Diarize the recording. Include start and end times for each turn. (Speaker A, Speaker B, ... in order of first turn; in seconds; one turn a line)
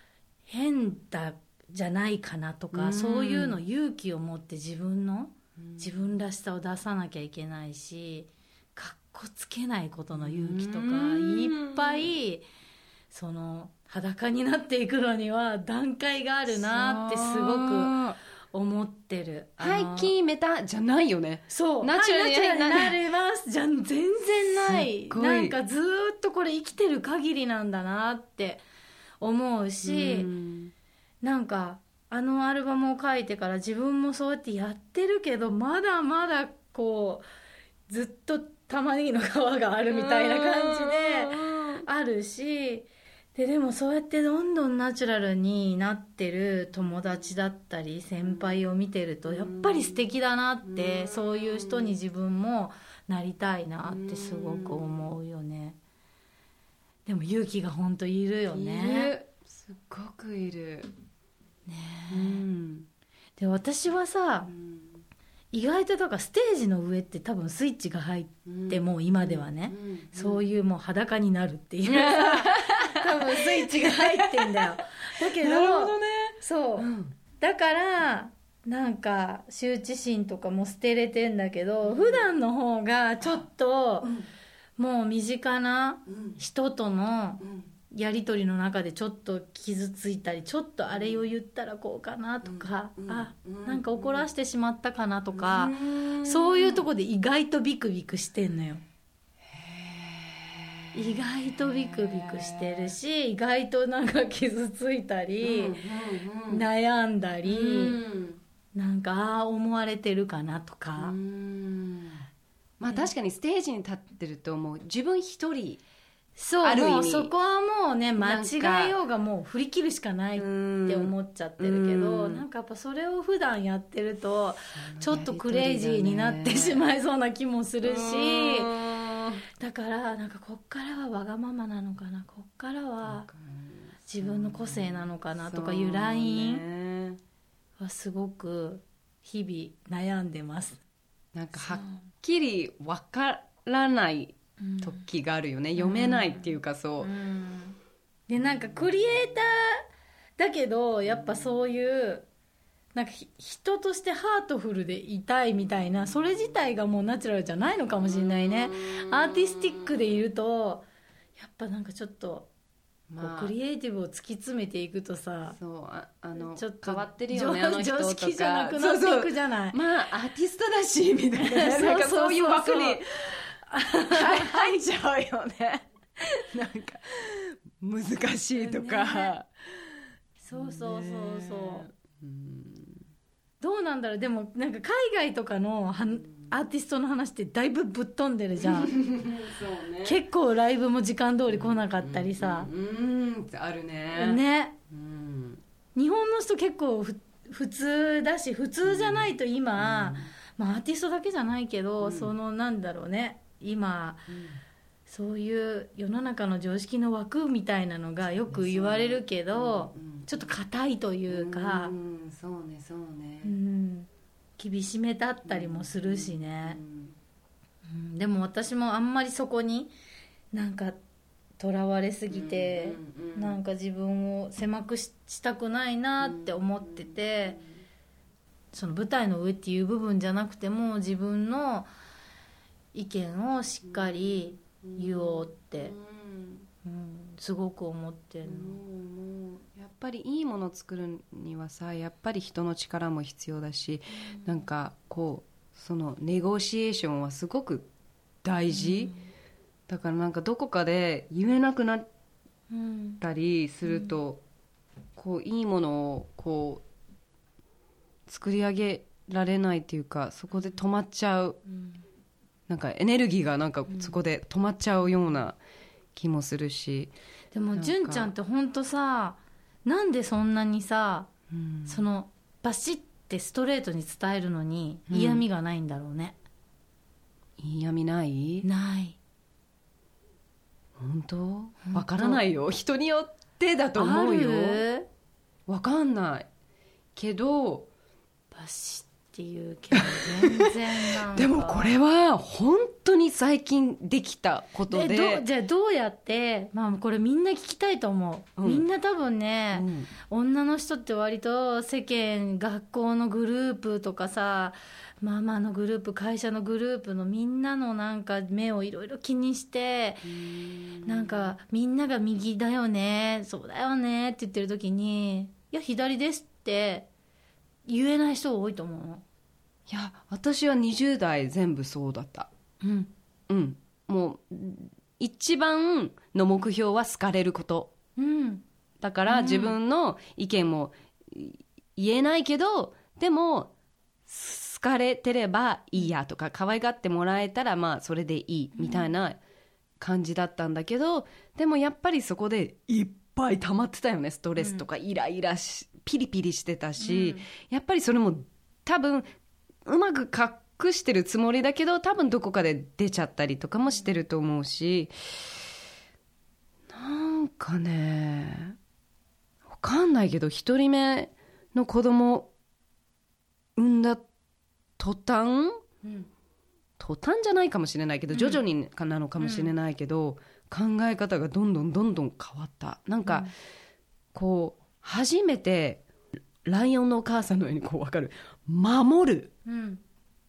Speaker A: 0.5-12.4
Speaker B: 2.7-3.6
Speaker B: 5.6-5.9
Speaker B: 10.1-12.1
Speaker A: 13.1-20.1
Speaker B: 16.5-18.2
Speaker B: 19.6-23.0
Speaker A: 21.5-28.6
Speaker B: 24.6-25.6
Speaker A: 29.2-30.3
Speaker B: 29.8-30.7
Speaker A: 31.2-37.2
Speaker A: 37.9-55.8
Speaker B: 39.9-41.9
Speaker B: 48.2-48.6
Speaker B: 49.3-50.0
Speaker B: 50.6-52.0
Speaker B: 53.8-55.1
Speaker A: 57.0-59.1
Speaker B: 58.5-60.9
Speaker A: 61.7-62.4
Speaker B: 62.1-62.9
Speaker A: 63.4-64.5
Speaker B: 64.5-65.0
Speaker A: 65.5-84.1
Speaker B: 68.4-70.4
Speaker B: 71.9-77.1
Speaker B: 81.8-82.2
Speaker A: 84.8-98.8
Speaker B: 86.1-86.4
Speaker B: 87.4-87.7
Speaker B: 90.9-91.2
Speaker B: 92.4-94.2
Speaker B: 95.3-96.8
Speaker B: 99.5-102.9
Speaker A: 100.9-105.8
Speaker B: 105.4-106.7
Speaker A: 106.5-108.0
Speaker B: 107.4-108.4
Speaker A: 108.7-111.2
Speaker B: 111.0-112.2
Speaker B: 112.8-115.8
Speaker A: 116.4-128.7
Speaker B: 116.6-117.3
Speaker B: 118.2-118.9
Speaker B: 120.4-122.4
Speaker B: 124.7-126.8
Speaker B: 127.8-129.4
Speaker A: 129.6-133.3
Speaker B: 133.0-137.2
Speaker A: 134.1-136.6
Speaker A: 137.8-140.8
Speaker B: 141.3-147.1
Speaker A: 141.5-142.1
Speaker A: 144.6-145.0
Speaker A: 145.8-149.8
Speaker A: 150.4-152.2
Speaker A: 152.9-160.8
Speaker B: 158.0-159.8
Speaker A: 161.4-162.5
Speaker B: 163.1-163.5
Speaker A: 163.2-165.6
Speaker B: 165.5-173.5
Speaker A: 166.4-169.8
Speaker A: 171.3-174.8
Speaker B: 174.1-179.5
Speaker A: 178.6-179.3
Speaker A: 180.4-181.9
Speaker B: 180.5-183.0
Speaker A: 183.6-188.9
Speaker B: 188.6-190.2
Speaker A: 190.0-192.7
Speaker B: 191.5-195.6
Speaker A: 194.1-194.8
Speaker A: 195.9-204.3
Speaker B: 198.8-200.3
Speaker B: 202.0-202.3
Speaker B: 204.3-204.6
Speaker A: 205.1-211.9
Speaker B: 208.3-210.5
Speaker B: 211.3-213.5
Speaker A: 213.4-216.8
Speaker B: 215.4-217.2
Speaker A: 217.9-219.9
Speaker A: 220.5-221.0
Speaker A: 221.6-227.6
Speaker B: 222.3-223.6
Speaker B: 226.2-227.7
Speaker A: 228.7-231.9
Speaker A: 232.9-235.9
Speaker B: 233.8-236.7
Speaker A: 236.8-238.8
Speaker B: 238.4-247.8
Speaker A: 244.3-244.6
Speaker B: 248.4-249.1
Speaker A: 248.7-249.3
Speaker B: 249.9-252.1
Speaker A: 252.7-253.2
Speaker B: 253.2-254.4
Speaker A: 253.8-254.2
Speaker B: 255.2-256.8
Speaker B: 258.3-261.6
Speaker A: 261.7-262.0
Speaker B: 262.7-265.6
Speaker A: 263.9-264.1
Speaker B: 266.1-267.1
Speaker A: 267.5-271.3
Speaker B: 267.7-268.3
Speaker B: 271.5-272.0
Speaker A: 271.9-276.4
Speaker B: 275.1-275.4
Speaker B: 277.6-278.7
Speaker A: 278.6-279.2
Speaker B: 281.0-284.8
Speaker A: 281.8-282.4
Speaker A: 283.9-285.1
Speaker B: 285.7-286.5
Speaker B: 287.1-287.9
Speaker A: 288.5-291.9
Speaker B: 290.1-290.7
Speaker B: 291.3-295.4
Speaker A: 294.9-310.3
Speaker B: 298.6-298.9
Speaker B: 299.7-300.1
Speaker B: 310.2-311.5
Speaker A: 311.0-317.1
Speaker A: 317.9-319.2
Speaker B: 319.9-322.5
Speaker A: 322.8-323.1
Speaker B: 323.5-327.9
Speaker A: 328.2-328.6
Speaker B: 329.0-333.7
Speaker A: 329.3-329.8
Speaker B: 334.2-339.4
Speaker A: 338.8-339.1
Speaker B: 340.0-349.2
Speaker A: 344.6-344.8
Speaker A: 347.0-347.4
Speaker B: 349.8-355.1
Speaker B: 356.9-358.8
Speaker B: 359.7-362.5
Speaker B: 363.8-364.2
Speaker B: 365.0-365.8
Speaker A: 366.0-366.3
Speaker B: 367.0-373.5
Speaker A: 368.3-368.6
Speaker A: 369.4-369.7
Speaker A: 373.2-373.5
Speaker B: 374.3-379.5
Speaker A: 379.6-380.0